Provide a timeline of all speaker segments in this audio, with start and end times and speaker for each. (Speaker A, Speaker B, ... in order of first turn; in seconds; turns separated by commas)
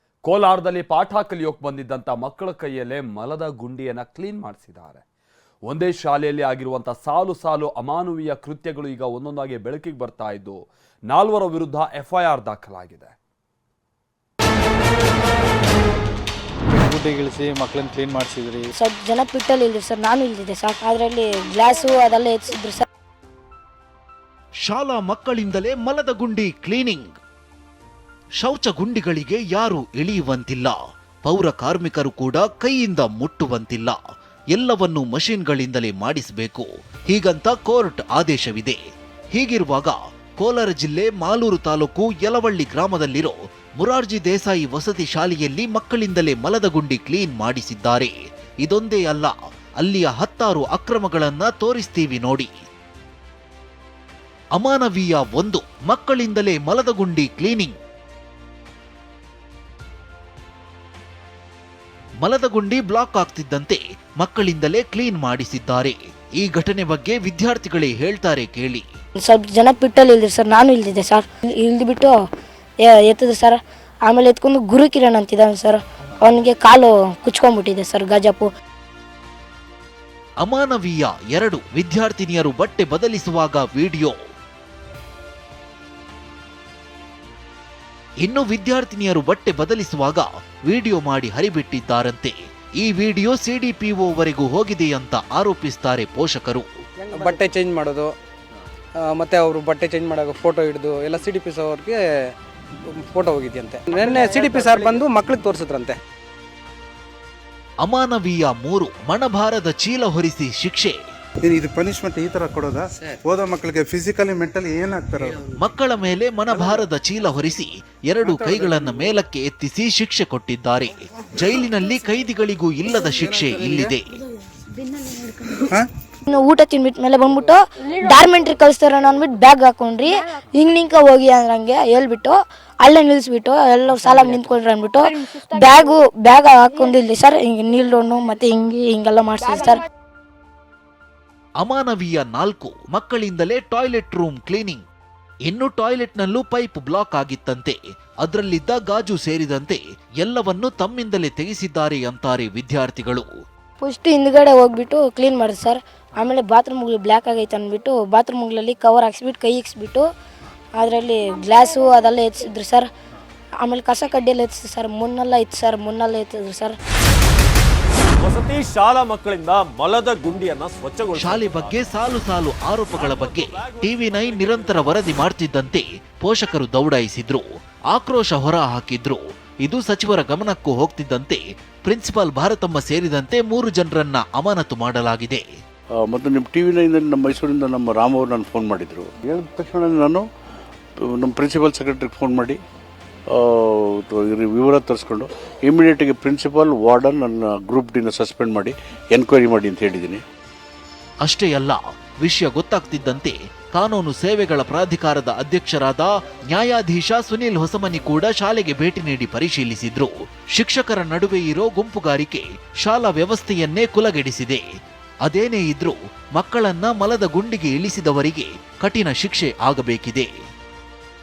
Speaker A: 0.2-5.0, Speaker A: 5.7-13.1, Speaker B: 16.7-18.7, Speaker C: 18.8-22.9, Speaker D: 24.7-27.1, Speaker D: 28.4-34.0, Speaker D: 34.5-38.8, Speaker D: 39.3-48.1, Speaker D: 48.6-52.5, Speaker D: 54.5-57.8, Speaker D: 62.2-68.8, Speaker C: 69.2-72.2, Speaker C: 72.8-78.5, Speaker D: 80.4-84.2, Speaker D: 88.2-96.7, Speaker E: 97.1-98.1, Speaker E: 99.0-106.0, Speaker D: 107.8-111.0, Speaker F: 111.4-115.4, Speaker D: 115.5-124.2, Speaker F: 118.3-119.1, Speaker C: 126.3-139.8, Speaker D: 141.6-144.8, Speaker D: 145.5-153.3, Speaker C: 153.8-160.1, Speaker C: 160.8-162.9, Speaker C: 163.6-166.8, Speaker G: 168.2-171.9, Speaker D: 171.2-185.4, Speaker G: 172.9-175.1, Speaker H: 186.1-190.2, Speaker H: 191.0-192.6, Speaker H: 193.3-200.2, Speaker D: 201.2-214.6, Speaker D: 215.2-220.3